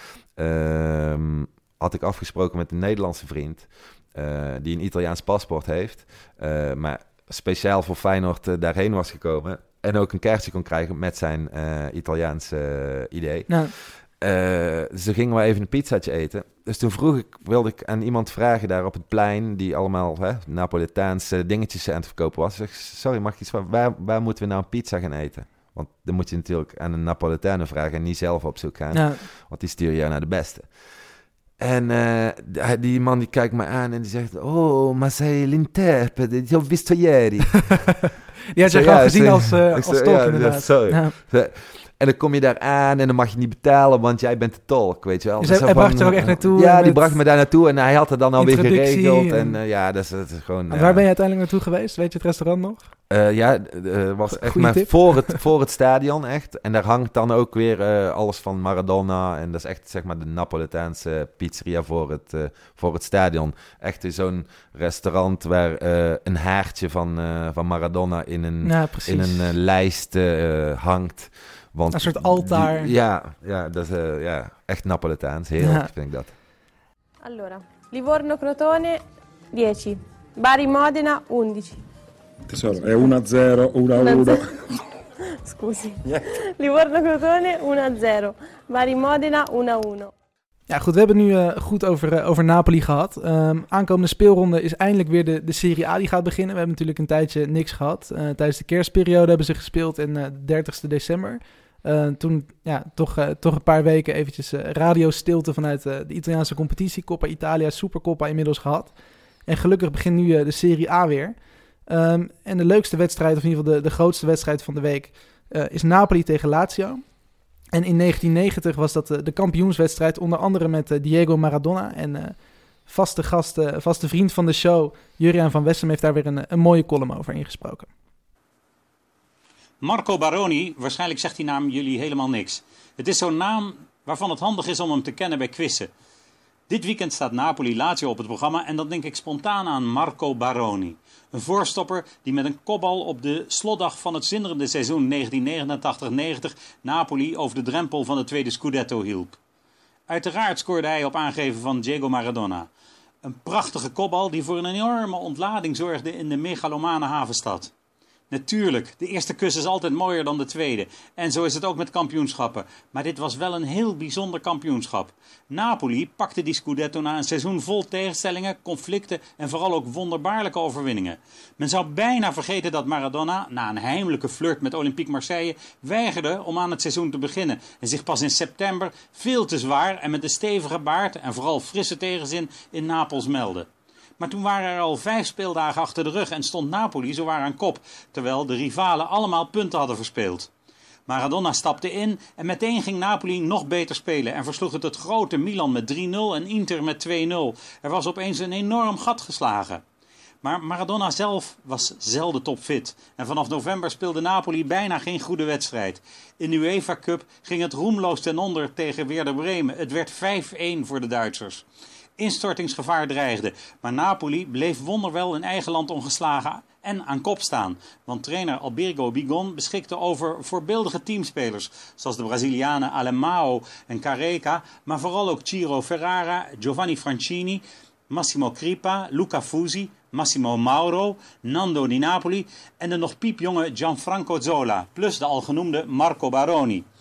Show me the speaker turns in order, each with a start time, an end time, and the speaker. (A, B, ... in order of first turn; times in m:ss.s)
0:00.4-0:30.7 A
0:28.9-0:29.2 B
0:31.6-0:38.0 A
0:38.5-0:41.1 B
0:38.6-0:51.0 A
0:45.4-0:47.2 B
0:48.4-0:49.6 B
0:50.7-0:52.9 B
0:53.1-1:16.3 A
0:54.3-0:55.4 B
1:08.6-1:09.5 B
1:11.9-1:12.9 B
1:15.6-1:15.9 B
1:17.2-1:19.0 C
1:19.5-1:21.8 C
1:22.5-1:24.5 D
1:24.0-1:24.5 C
1:25.4-1:30.1 C
1:30.7-1:48.9 B
1:49.5-1:57.1 B
1:57.7-2:07.9 B
2:09.8-2:15.9 E
2:16.7-2:29.4 E
2:30.1-2:32.7 E
2:33.2-2:37.7 E
2:38.3-3:03.7 E
3:04.2-3:10.5 E
3:11.1-3:19.8 E
3:20.4-3:31.6 E
3:32.2-3:56.8 E